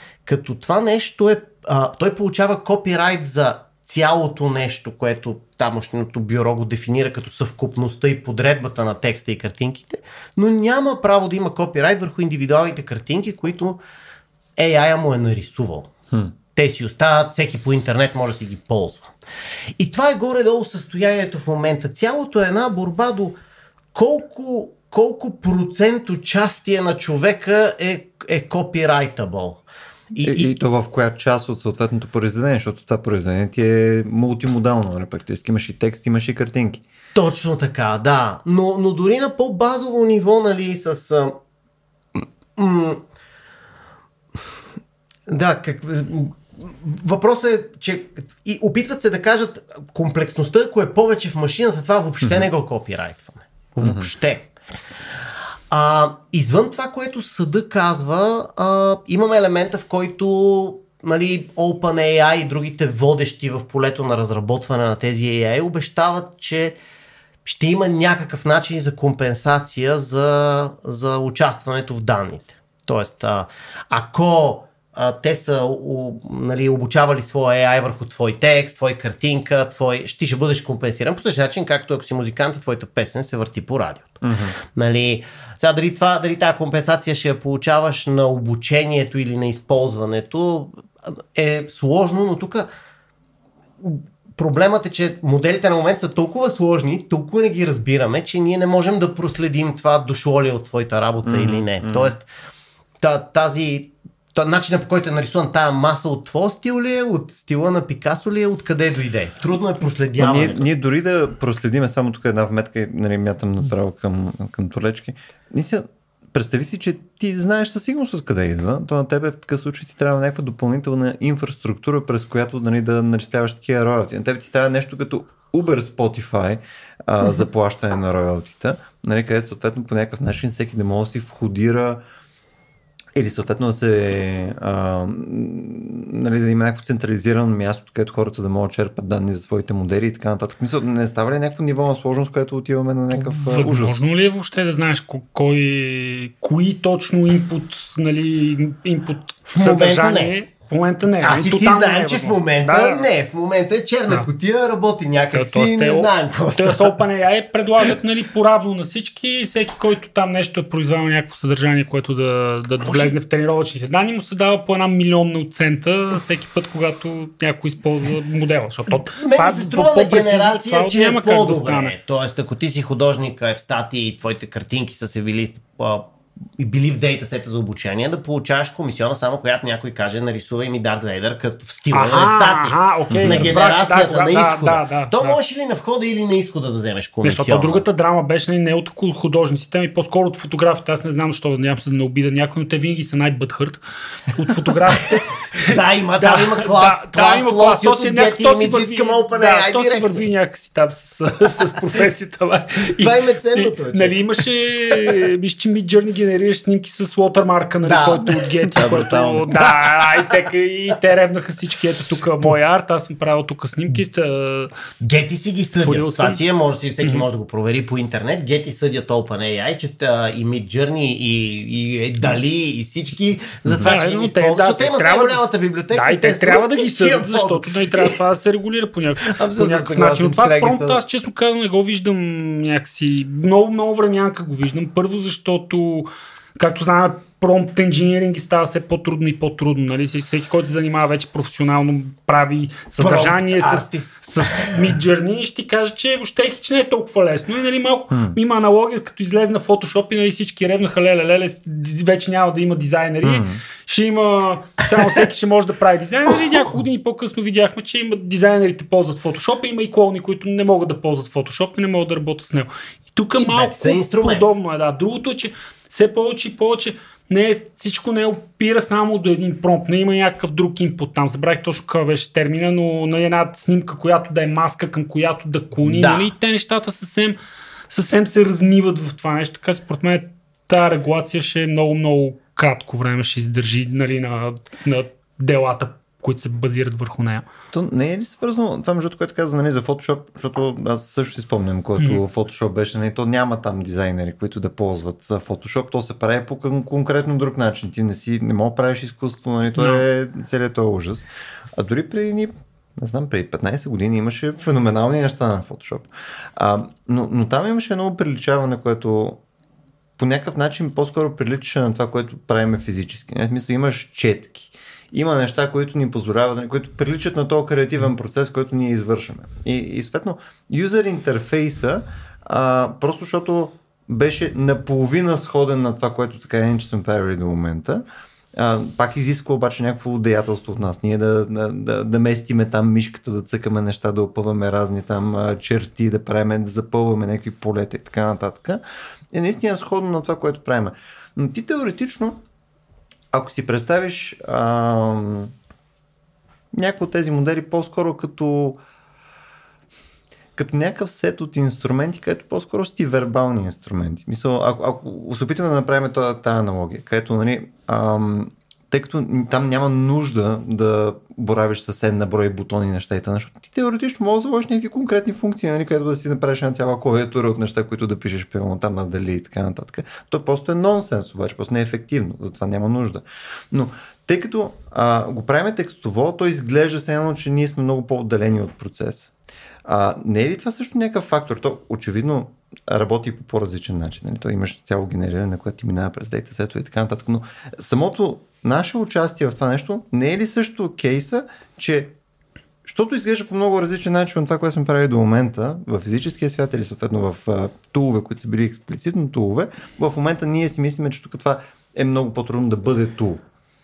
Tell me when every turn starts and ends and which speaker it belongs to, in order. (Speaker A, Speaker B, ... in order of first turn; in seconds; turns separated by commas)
Speaker A: 0.3-13.8, Speaker A: 14.6-15.9, Speaker A: 16.6-19.1, Speaker A: 19.8-23.4, Speaker A: 23.9-30.5, Speaker B: 30.2-36.8, Speaker A: 37.1-41.4, Speaker A: 42.6-43.0, Speaker A: 45.3-54.5, Speaker B: 53.8-54.1, Speaker A: 55.7-66.8, Speaker A: 67.5-84.2, Speaker B: 84.2-84.6, Speaker A: 84.8-92.7, Speaker A: 93.8-102.3, Speaker B: 101.3-102.1, Speaker A: 103.0-110.7, Speaker B: 110.2-132.0, Speaker B: 133.2-144.0, Speaker C: 143.1-153.1, Speaker A: 149.5-150.3, Speaker A: 151.2-157.0, Speaker C: 155.3-171.9, Speaker A: 162.8-163.1, Speaker A: 168.9-187.8, Speaker C: 181.9-185.4, Speaker B: 183.1-183.5, Speaker C: 187.2-214.7, Speaker A: 194.9-200.2, Speaker A: 203.0-204.2, Speaker A: 207.8-208.4, Speaker B: 208.7-209.5, Speaker A: 209.5-210.3, Speaker A: 215.0-228.2, Speaker C: 215.8-216.4, Speaker C: 223.8-277.4, Speaker A: 229.2-231.0, Speaker A: 243.0-244.9, Speaker B: 248.1-248.4, Speaker B: 253.2-253.6, Speaker A: 263.4-264.5, Speaker A: 275.8-276.3, Speaker C: 277.9-287.5, Speaker B: 287.7-309.4, Speaker C: 299.8-300.0, Speaker B: 310.2-328.0, Speaker B: 328.6-338.8, Speaker B: 339.3-342.4, Speaker B: 343.3-345.5, Speaker B: 346.7-348.8, Speaker B: 350.6-379.3, Speaker B: 379.9-392.1, Speaker B: 392.9-403.4